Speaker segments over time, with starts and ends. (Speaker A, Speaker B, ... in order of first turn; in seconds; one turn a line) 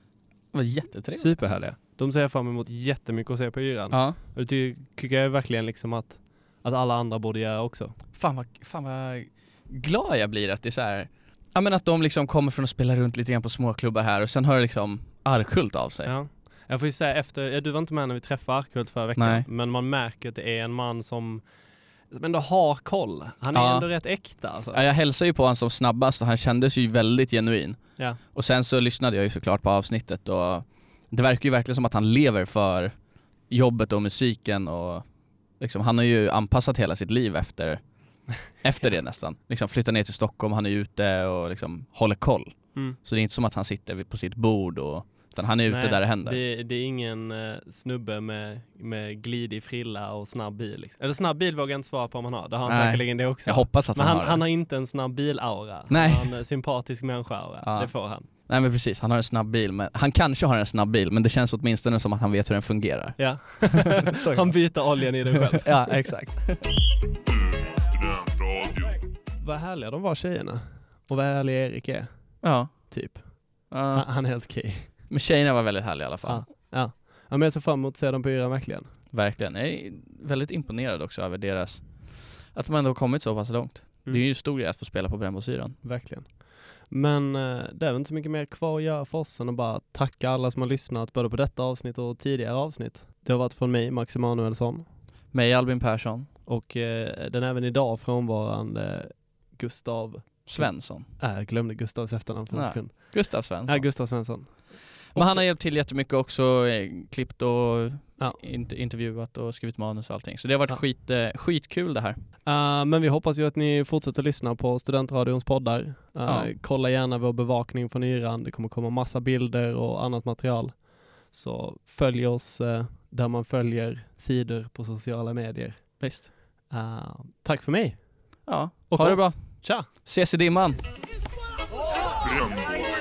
Speaker A: 0.5-1.5
Speaker B: 1.1-8.0
Speaker A: 3.9-4.2
Speaker A: 8.1-16.1
Speaker B: 16.0-24.8
Speaker A: 19.1-19.5
Speaker A: 23.5-46.4
Speaker B: 45.7-58.3
Speaker A: 52.6-54.4
Speaker A: 55.9-56.3
Speaker A: 57.6-64.9
Speaker B: 63.2-65.8
Speaker A: 65.6-66.6
Speaker B: 69.4-74.9
Speaker A: 72.4-73.1
Speaker A: 73.7-76.5
Speaker B: 76.2-78.9
Speaker A: 79.1-85.8
Speaker B: 85.8-94.9
Speaker A: 95.3-96.3
Speaker B: 96.5-105.5
Speaker A: 100.5-101.1
Speaker A: 102.5-103.9
Speaker A: 105.1-112.2
Speaker B: 112.4-129.9
Speaker A: 116.2-116.5
Speaker A: 126.0-126.3
Speaker A: 128.5-130.8